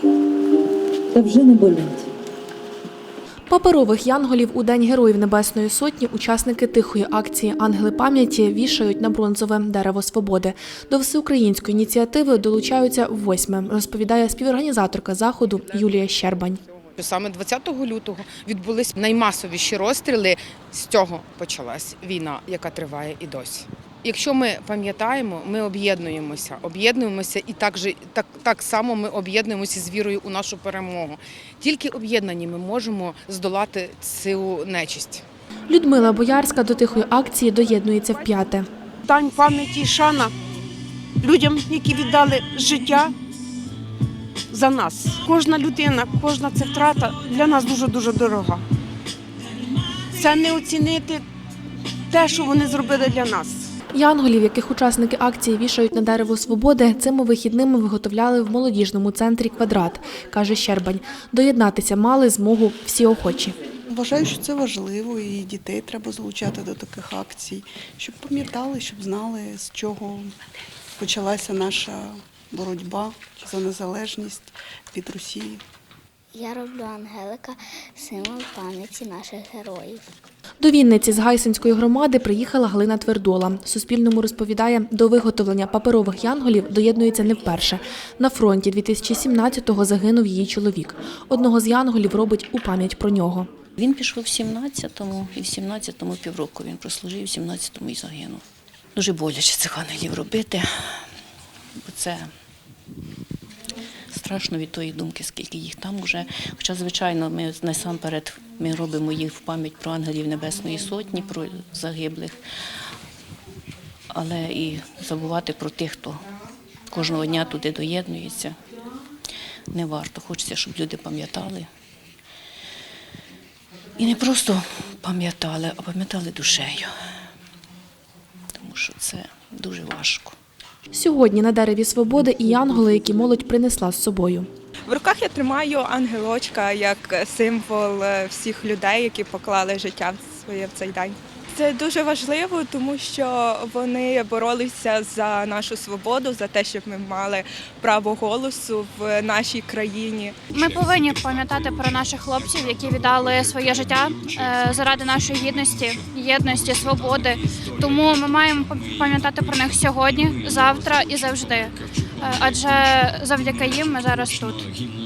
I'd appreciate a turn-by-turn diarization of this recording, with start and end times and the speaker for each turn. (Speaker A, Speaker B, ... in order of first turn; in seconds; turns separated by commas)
Speaker A: 3.5-16.6, Speaker B: 17.0-35.2, Speaker A: 35.7-38.6, Speaker C: 39.0-40.3, Speaker C: 41.2-43.1, Speaker C: 44.5-48.6, Speaker C: 50.1-51.2, Speaker C: 52.1-53.7, Speaker A: 53.9-63.5, Speaker D: 63.9-70.3, Speaker D: 71.0-75.6, Speaker E: 76.3-80.0, Speaker A: 80.6-93.5, Speaker F: 93.8-98.4, Speaker F: 98.9-101.0, Speaker F: 101.8-102.3, Speaker F: 104.1-112.4, Speaker F: 114.1-116.2, Speaker F: 116.9-118.6, Speaker F: 119.7-121.7, Speaker F: 124.0-126.9, Speaker F: 128.6-130.3, Speaker A: 130.9-134.5, Speaker G: 134.9-150.4, Speaker H: 150.5-164.7